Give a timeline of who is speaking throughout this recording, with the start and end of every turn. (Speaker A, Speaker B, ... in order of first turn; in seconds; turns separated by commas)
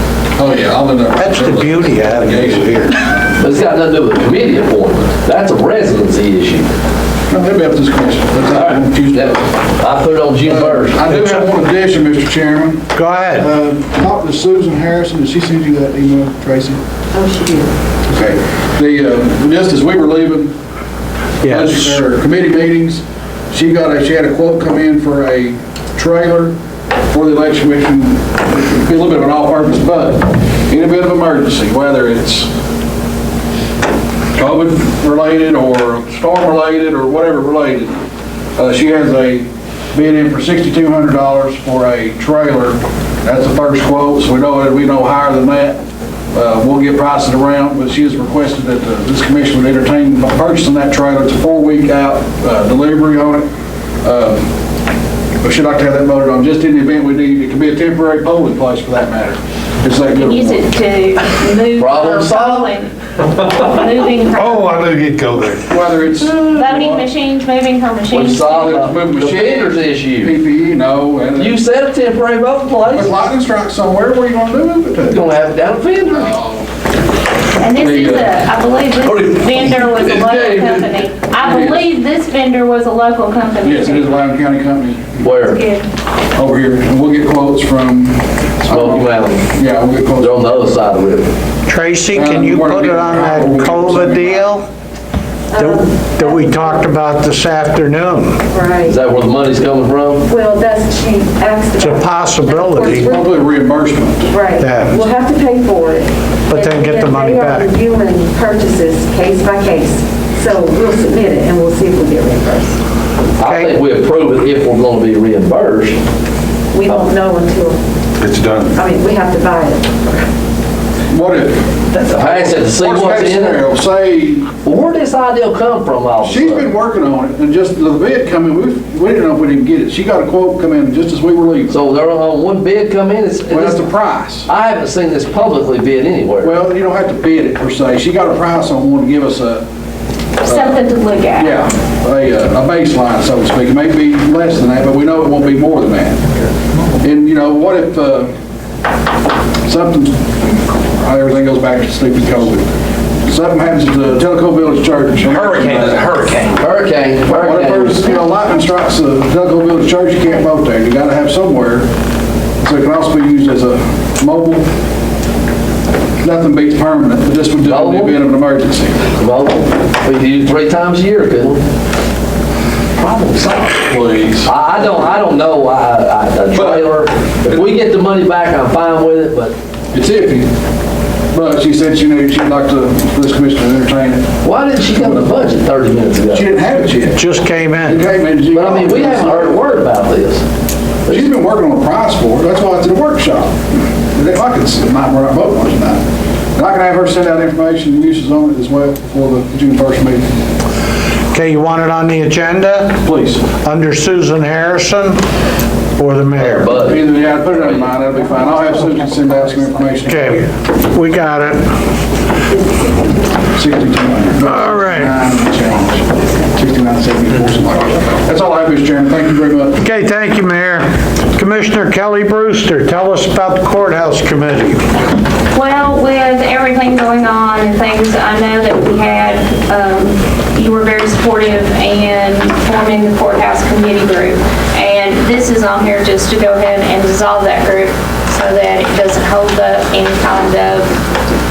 Speaker A: 0.3-2.7, Speaker B: 1.2-3.0, Speaker C: 3.4-6.7, Speaker A: 7.3-9.5, Speaker C: 8.5-11.0, Speaker A: 10.4-16.8, Speaker B: 11.1-11.4, Speaker B: 12.9-13.5, Speaker D: 17.1-17.7, Speaker A: 18.1-20.6, Speaker A: 21.4-26.6, Speaker B: 21.4-22.0, Speaker A: 27.1-32.5, Speaker A: 34.3-38.0, Speaker A: 38.6-45.8, Speaker A: 46.3-53.5, Speaker A: 54.0-54.5, Speaker A: 55.4-60.7, Speaker E: 60.1-64.8, Speaker C: 61.8-62.7, Speaker B: 64.4-65.6, Speaker A: 65.7-67.1, Speaker E: 66.2-68.8, Speaker C: 68.1-70.3, Speaker A: 68.6-71.6, Speaker C: 71.4-73.2, Speaker A: 72.9-75.2, Speaker C: 75.0-76.3, Speaker A: 76.1-76.7, Speaker E: 77.6-84.3, Speaker A: 77.8-78.3, Speaker C: 79.0-81.9, Speaker A: 83.6-85.3, Speaker C: 85.2-85.6, Speaker E: 85.3-85.9, Speaker A: 86.3-90.8, Speaker C: 88.7-89.5, Speaker C: 90.2-91.3, Speaker B: 91.7-94.7, Speaker A: 92.1-94.5, Speaker D: 95.5-96.9, Speaker B: 95.6-98.4, Speaker D: 98.5-99.0, Speaker C: 98.9-100.2, Speaker D: 100.2-103.4, Speaker B: 101.8-103.2, Speaker A: 103.0-104.3, Speaker D: 104.3-112.8, Speaker B: 104.6-105.0, Speaker B: 106.5-107.7, Speaker C: 113.4-116.0, Speaker B: 113.4-113.8, Speaker D: 116.7-117.8, Speaker D: 118.7-120.3, Speaker A: 121.1-124.5, Speaker C: 122.0-123.6, Speaker C: 124.6-126.7, Speaker A: 126.2-131.8, Speaker C: 131.7-133.9, Speaker A: 133.5-134.5, Speaker C: 134.5-136.6, Speaker A: 136.4-139.7, Speaker E: 140.4-141.6, Speaker A: 140.4-140.8, Speaker A: 141.4-146.3, Speaker A: 147.0-148.3, Speaker A: 149.7-152.7, Speaker A: 153.2-156.1, Speaker B: 155.3-156.5, Speaker C: 156.6-158.0, Speaker A: 157.2-161.9, Speaker A: 162.6-164.7, Speaker A: 166.2-169.1, Speaker C: 167.6-168.2, Speaker C: 169.2-171.6, Speaker C: 173.0-173.9, Speaker A: 173.8-174.5, Speaker C: 174.4-179.6, Speaker A: 176.5-177.7, Speaker A: 179.9-180.5, Speaker A: 181.3-184.3, Speaker C: 184.4-186.5, Speaker A: 184.9-185.3, Speaker A: 186.3-187.2, Speaker B: 187.1-188.1, Speaker A: 187.9-189.7, Speaker C: 188.5-190.4, Speaker A: 191.1-196.0, Speaker A: 196.6-200.3, Speaker B: 201.3-205.2, Speaker A: 203.0-203.4, Speaker B: 206.0-206.8, Speaker C: 206.4-207.9, Speaker A: 206.8-210.5, Speaker B: 210.1-211.7, Speaker D: 212.5-213.4, Speaker A: 213.5-219.8, Speaker B: 214.4-215.2, Speaker B: 219.8-224.9, Speaker E: 225.5-241.0